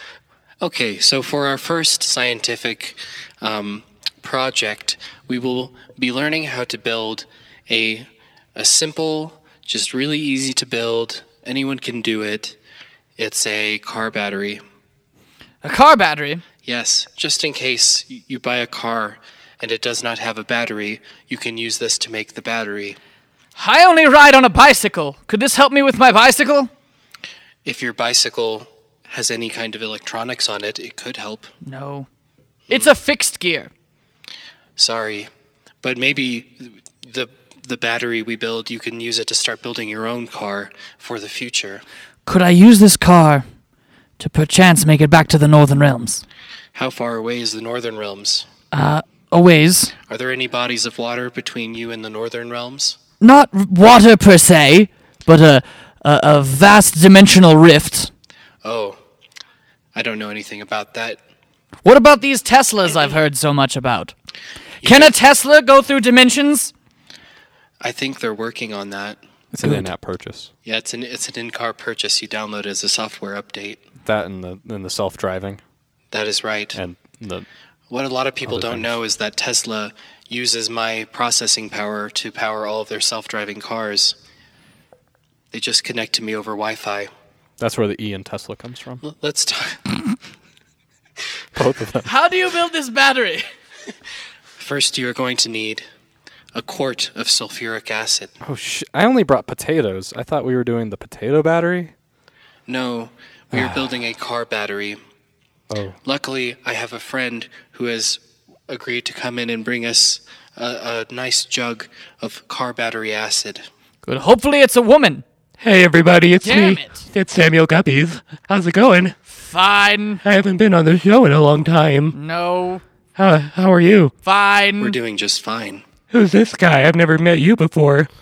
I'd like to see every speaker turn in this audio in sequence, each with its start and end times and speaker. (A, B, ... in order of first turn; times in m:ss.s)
0:00.6-0:12.6 A
0:13.2-0:14.6 A
0:15.6-0:16.4 B
0:16.6-0:23.0 A
0:23.6-0:26.7 B
0:27.6-0:31.5 A
0:31.6-0:32.1 B
0:32.7-0:33.7 B
0:34.8-0:35.3 A
0:35.8-0:41.8 A
0:42.2-0:43.4 B
0:44.2-0:46.2 B
0:46.7-0:48.5 A
0:48.7-0:49.9 B
0:50.1-0:53.0 A
0:53.2-0:58.1 B
0:58.6-0:59.0 A
0:59.9-1:01.2 A
1:01.8-1:04.1 B
1:04.8-1:05.1 A
1:04.8-1:06.7 B
1:07.8-1:09.8 A
1:09.5-1:10.5 C
1:10.6-1:13.8 A
1:14.0-1:15.6 C
1:16.1-1:16.8 A
1:16.7-1:17.5 C
1:17.9-1:24.2 A
1:18.4-1:19.0 C
1:25.5-1:27.1 A
1:27.6-1:29.0 C
1:29.0-1:29.8 A
1:31.5-1:32.1 C
1:32.0-1:33.4 B
1:34.6-1:35.8 A
1:36.5-1:38.3 A
1:38.4-1:41.9 C
1:42.7-1:45.0 A
1:43.5-1:43.8 C
1:45.7-1:46.0 C
1:46.0-1:53.6 A
1:54.0-1:55.2 B
1:55.6-1:59.2 D
1:56.4-1:57.1 B
1:59.3-2:00.2 B
2:00.2-2:02.1 D
2:02.1-2:02.8 B
2:03.2-2:04.1 D
2:04.2-2:05.0 B
2:04.8-2:05.8 A
2:06.1-2:08.1 D